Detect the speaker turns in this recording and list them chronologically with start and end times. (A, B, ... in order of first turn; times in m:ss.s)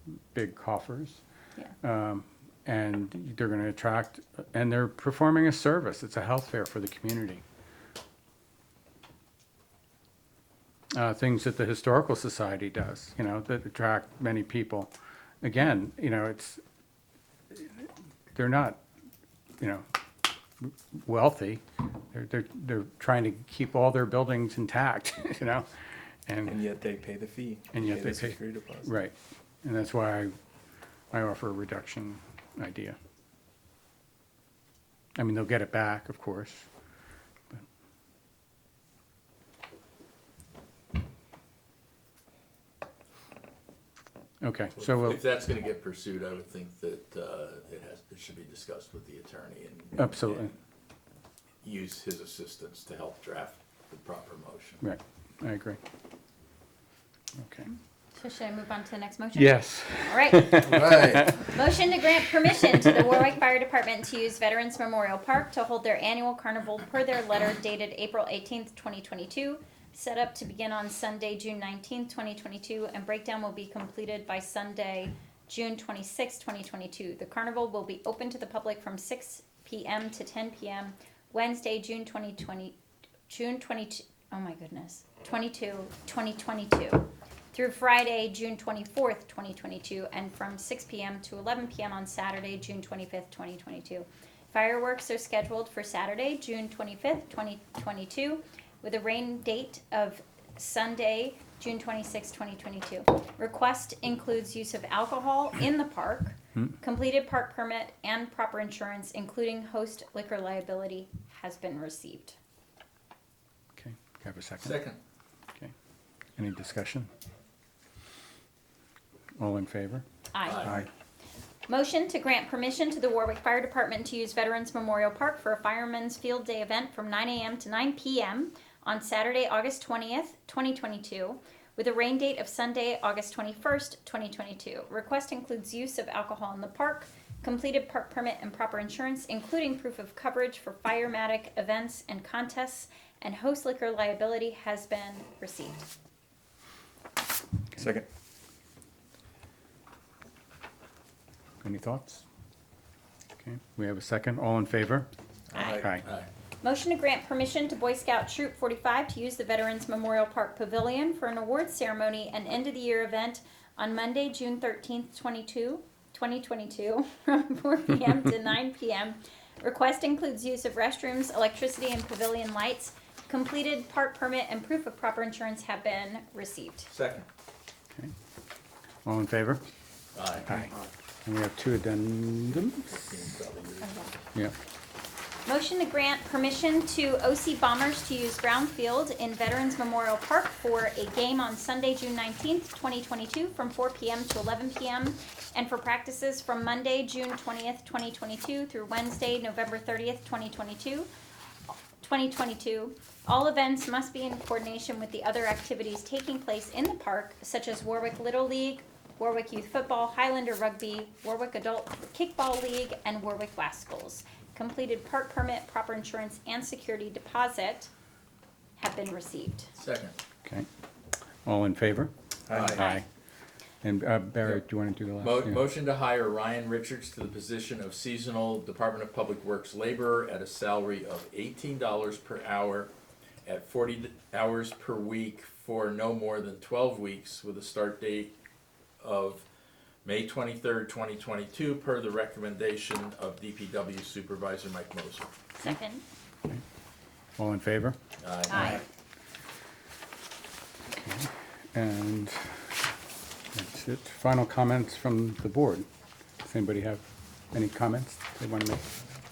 0:00.3-0:01.2 A
0:01.8-0:07.4 A
0:10.9-0:16.6 A
0:17.5-0:18.8 A
0:19.6-0:19.8 A
0:20.6-0:25.7 A
0:26.3-0:26.6 A
0:26.4-0:29.0 B
0:27.7-0:30.3 A
0:31.1-0:33.0 A
0:35.2-0:36.7 A
0:44.4-0:45.2 A
0:44.8-0:50.5 C
0:50.0-0:50.5 A
0:51.6-0:54.8 C
0:54.8-0:55.8 A
0:57.4-0:57.7 A
0:58.1-1:22.8 D
0:59.4-1:01.5 A
1:00.6-1:01.4 B
1:23.3-1:52.4 D
1:53.7-1:54.8 A
1:54.6-1:55.0 C
1:56.4-1:57.1 A
1:59.4-2:00.0 A
2:00.3-2:00.8 D
2:00.4-2:00.8 C
2:01.7-2:25.8 D
2:27.8-2:28.0 B
2:31.6-2:32.2 A
2:33.4-2:35.1 A
2:35.5-2:36.3 C
2:35.5-2:35.8 D
2:35.8-2:36.0 A
2:36.6-2:56.9 D
2:56.9-2:57.2 C
2:59.0-2:59.6 A
3:00.1-3:00.6 C
3:01.2-3:02.8 A
3:02.5-3:04.0 C
3:03.8-3:04.1 D
3:05.4-3:21.1 D
3:22.0-3:37.9 D
3:38.8-3:39.7 D
3:39.8-3:40.2 C
3:41.4-3:43.0 A
3:42.5-3:42.7 B
3:42.5-3:42.8 C
3:43.8-3:45.6 A
3:45.2-3:52.9 C
3:53.4-3:58.4 C
3:59.0-3:59.4 C
4:00.0-4:05.3 C
4:05.6-4:06.0 D
4:07.4-4:08.0 A
4:08.2-4:08.8 C
4:08.5-4:08.8 D
4:11.0-4:12.6 A
4:13.5-4:15.8 A
4:16.4-4:18.9 A